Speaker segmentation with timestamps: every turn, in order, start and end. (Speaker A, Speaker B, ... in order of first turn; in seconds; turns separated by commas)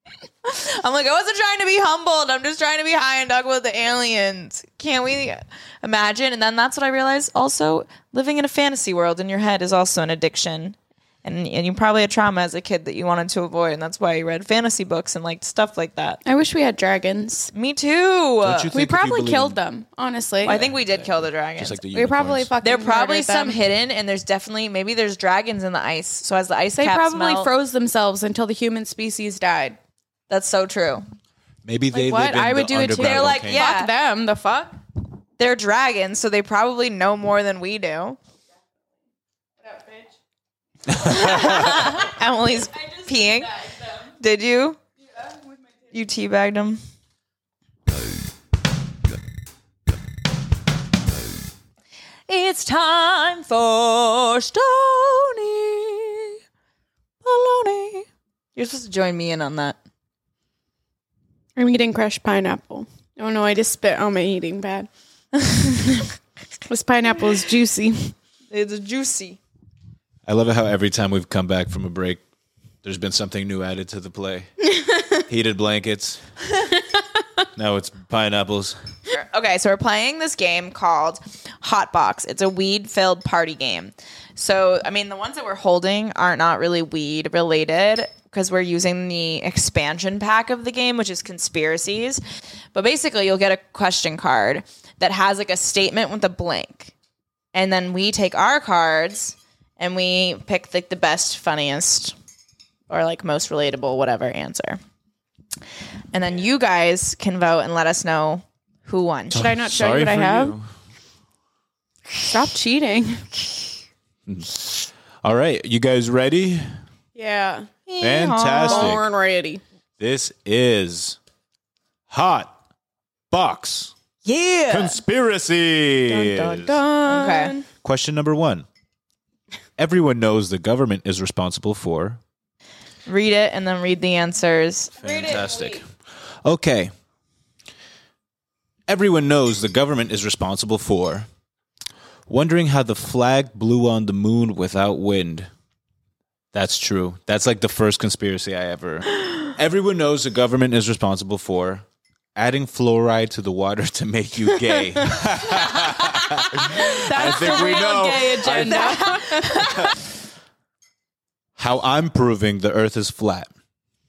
Speaker A: 0.4-16.2, Speaker B: 16.2-17.5, Speaker A: 17.5-18.7, Speaker C: 18.4-19.6, Speaker B: 18.7-20.6, Speaker A: 20.4-21.8, Speaker C: 20.4-22.5, Speaker B: 21.9-23.6, Speaker A: 22.6-27.5, Speaker B: 26.8-29.8, Speaker A: 30.3-31.1, Speaker C: 31.6-33.7, Speaker B: 31.9-34.8, Speaker A: 33.0-33.9, Speaker A: 35.4-38.2, Speaker B: 39.6-40.1, Speaker C: 40.9-41.8, Speaker A: 41.0-44.8, Speaker B: 41.4-42.1, Speaker B: 42.8-43.8, Speaker A: 45.9-46.8, Speaker A: 52.3-56.4, Speaker A: 57.2-59.8, Speaker B: 61.5-64.9, Speaker B: 66.7-68.1, Speaker A: 68.5-69.4, Speaker C: 70.2-72.2, Speaker C: 72.8-74.5, Speaker C: 75.1-76.2, Speaker C: 77.5-78.8, Speaker A: 79.1-92.2, Speaker A: 92.7-96.9, Speaker A: 97.5-102.1, Speaker A: 102.9-104.8, Speaker A: 106.1-109.4, Speaker B: 109.3-110.5, Speaker C: 109.3-110.7, Speaker B: 112.2-113.3, Speaker C: 114.3-116.7, Speaker B: 117.1-117.7, Speaker A: 117.9-119.0, Speaker C: 118.0-119.0, Speaker B: 118.6-119.6, Speaker C: 120.0-121.2, Speaker C: 122.1-122.5, Speaker C: 123.3-123.9, Speaker A: 124.2-125.0, Speaker C: 124.7-126.8, Speaker A: 126.2-127.5, Speaker B: 126.2-127.7, Speaker C: 127.8-128.7, Speaker C: 129.8-132.2, Speaker A: 133.1-135.4, Speaker C: 135.0-135.8, Speaker B: 135.0-135.8, Speaker C: 136.4-136.9, Speaker C: 138.9-141.3, Speaker C: 142.3-145.5, Speaker C: 146.5-151.8, Speaker C: 152.3-159.0, Speaker A: 156.4-157.9, Speaker B: 156.7-159.8, Speaker A: 158.4-159.9, Speaker C: 161.6-163.5